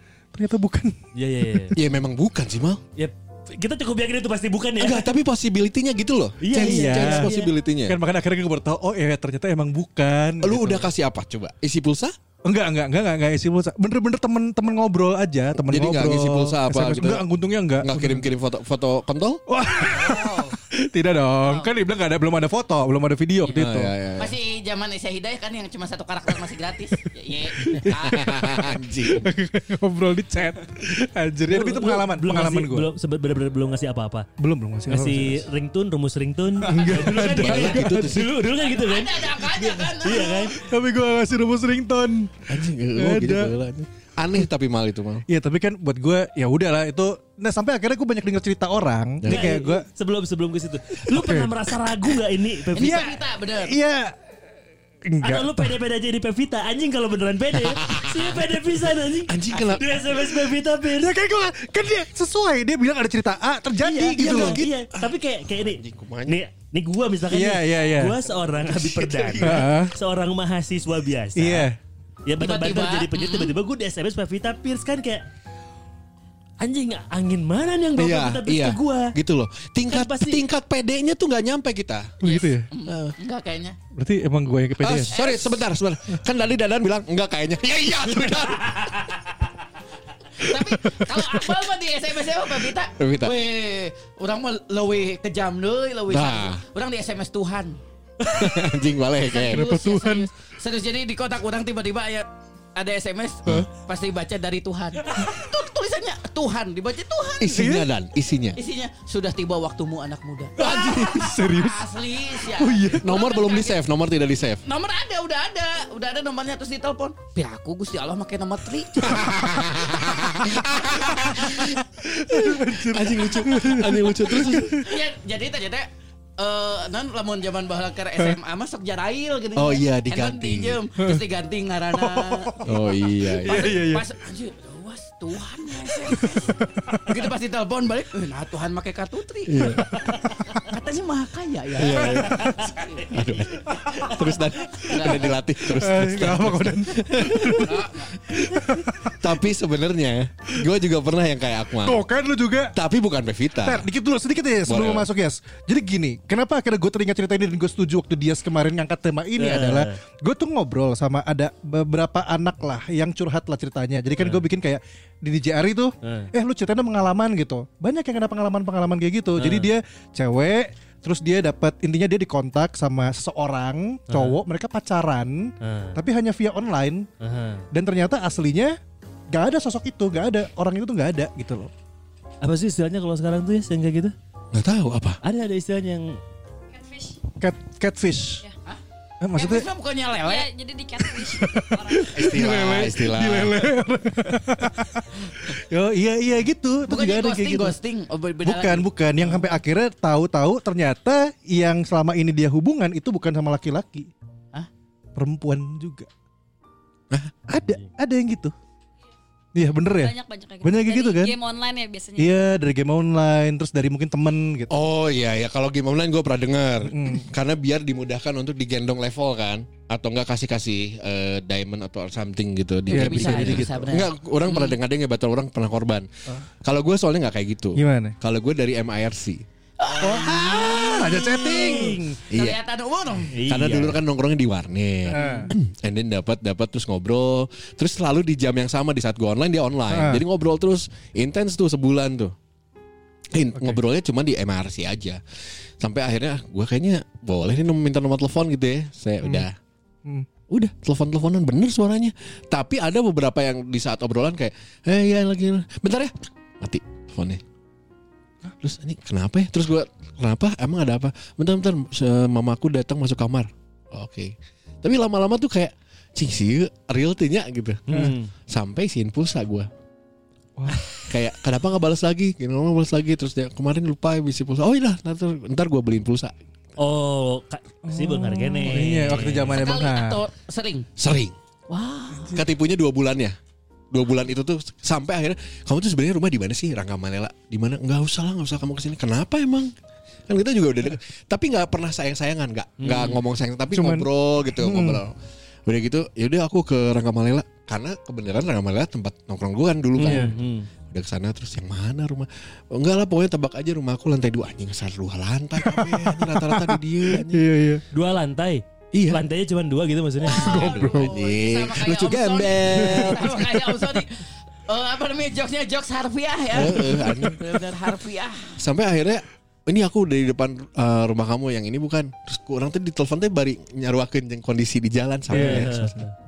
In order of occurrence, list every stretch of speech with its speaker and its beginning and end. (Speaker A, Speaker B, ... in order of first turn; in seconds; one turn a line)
Speaker A: 0.3-0.9
Speaker B: 1.1-1.8
Speaker C: 1.8-2.8
Speaker B: 3.0-5.1
Speaker C: 4.8-8.0
Speaker B: 6.4-7.5
Speaker A: 6.5-7.3
Speaker A: 7.8-10.9
Speaker C: 10.4-12.2
Speaker A: 12.4-18.3
Speaker C: 15.7-17.2
Speaker C: 17.8-19.4
Speaker A: 19.5-23.9
Speaker D: 19.8-20.6
Speaker D: 21.4-21.7
Speaker C: 23.5-24.4
Speaker D: 24.2-28.7
Speaker A: 27.6-32.9
Speaker C: 27.7-29.3
Speaker B: 31.5-34.3
Speaker A: 34.4-35.5
Speaker B: 34.9-40.6
Speaker A: 36.6-38.3
Speaker C: 37.1-38.3
Speaker D: 38.5-40.5
Speaker A: 40.6-43.5
Speaker C: 42.5-45.3
Speaker A: 45.3-49.9
Speaker C: 49.2-49.5
Speaker B: 49.3-53.1
Speaker A: 51.1-51.6
Speaker D: 52.8-53.8
Speaker A: 52.8-54.1
Speaker A: 55.1-55.8
Speaker B: 55.2-61.1
Speaker C: 57.7-58.3
Speaker C: 59.3-60.1
Speaker A: 61.0-64.6
Speaker B: 63.8-71.7
Speaker C: 64.2-65.1
Speaker C: 65.7-66.4
Speaker A: 67.3-68.2
Speaker C: 68.6-69.7
Speaker A: 69.4-69.9
Speaker A: 71.4-71.8
Speaker B: 72.3-75.2
Speaker D: 72.4-73.5
Speaker B: 76.6-79.1
Speaker C: 78.0-82.2
Speaker B: 79.9-80.4
Speaker A: 82.2-82.7
Speaker D: 82.2-83.8
Speaker C: 82.9-83.2
Speaker A: 84.0-85.1
Speaker C: 84.8-89.1
Speaker D: 85.1-85.6
Speaker B: 88.6-89.0
Speaker D: 90.4-97.8
Speaker C: 90.8-91.5
Speaker C: 93.0-93.3
Speaker C: 96.1-96.6
Speaker C: 98.3-99.7
Speaker D: 99.3-107.8
Speaker A: 99.5-100.3
Speaker C: 107.4-108.6
Speaker A: 107.5-107.9
Speaker D: 108.6-113.8
Speaker A: 110.6-111.9
Speaker A: 112.4-113.0
Speaker C: 113.0-114.6
Speaker D: 114.7-119.7
Speaker C: 119.1-121.8
Speaker D: 120.5-121.6
Speaker A: 121.5-125.0
Speaker C: 122.3-124.9
Speaker D: 124.8-125.9
Speaker D: 126.4-132.7
Speaker C: 129.6-130.8
Speaker A: 131.9-134.1
Speaker C: 132.6-133.8
Speaker D: 133.4-139.9
Speaker A: 136.1-137.1
Speaker C: 139.5-139.9
Speaker D: 140.6-145.4
Speaker C: 141.8-148.4
Speaker B: 142.4-142.7
Speaker A: 145.3-149.4
Speaker D: 147.6-148.1
Speaker C: 149.2-152.0
Speaker A: 151.8-152.8
Speaker C: 152.7-153.9
Speaker A: 153.6-177.1
Speaker C: 154.7-155.1
Speaker B: 159.4-160.0
Speaker B: 164.2-164.5
Speaker B: 166.0-166.3
Speaker B: 169.4-169.7
Speaker B: 174.1-174.4
Speaker B: 175.6-176.0
Speaker B: 177.2-177.7
Speaker A: 177.7-178.8
Speaker A: 179.3-181.7
Speaker B: 182.4-184.1
Speaker C: 184.5-185.2
Speaker B: 185.2-186.2
Speaker E: 186.7-187.2
Speaker A: 187.4-188.4
Speaker A: 189.2-189.7
Speaker D: 189.3-190.5
Speaker E: 190.2-192.2
Speaker A: 191.1-197.8
Speaker C: 192.1-193.6
Speaker D: 196.9-199.5
Speaker A: 198.4-204.1
Speaker A: 205.2-206.1
Speaker A: 207.5-208.5
Speaker A: 209.6-211.3
Speaker E: 209.9-212.4
Speaker A: 212.2-214.7
Speaker C: 214.7-226.1
Speaker A: 216.9-217.3
Speaker A: 222.9-223.9
Speaker D: 222.9-224.8
Speaker C: 226.6-229.4
Speaker A: 227.8-228.2
Speaker D: 229.8-233.3
Speaker A: 230.0-232.2
Speaker B: 231.5-232.1
Speaker C: 232.3-232.6
Speaker B: 233.3-234.0
Speaker C: 233.5-242.3
Speaker A: 235.1-235.5
Speaker A: 239.9-240.2
Speaker C: 243.3-245.2
Speaker A: 243.6-243.8
Speaker C: 245.8-249.6
Speaker C: 250.5-257.4
Speaker C: 258.6-267.8
Speaker B: 267.9-268.3
Speaker C: 268.5-269.7
Speaker A: 270.6-270.8
Speaker C: 271.0-276.3
Speaker B: 276.8-279.6
Speaker A: 277.9-280.2
Speaker D: 279.5-280.9
Speaker C: 281.0-281.4
Speaker D: 281.7-282.4
Speaker A: 282.1-282.4
Speaker C: 282.3-283.4
Speaker C: 283.9-289.7
Speaker C: 290.3-295.1
Speaker B: 292.8-293.2
Speaker A: 293.7-295.0
Speaker C: 295.7-300.3
Speaker B: 300.0-300.7
Speaker A: 300.0-300.3
Speaker C: 300.9-307.5
Speaker A: 305.6-307.8
Speaker B: 307.9-310.6
Speaker C: 308.9-309.2
Speaker D: 310.2-318.6
Speaker A: 310.4-311.1
Speaker C: 310.4-313.8
Speaker A: 312.7-313.2
Speaker C: 316.5-317.5
Speaker C: 318.6-325.9
Speaker A: 325.3-326.0
Speaker B: 325.3-326.1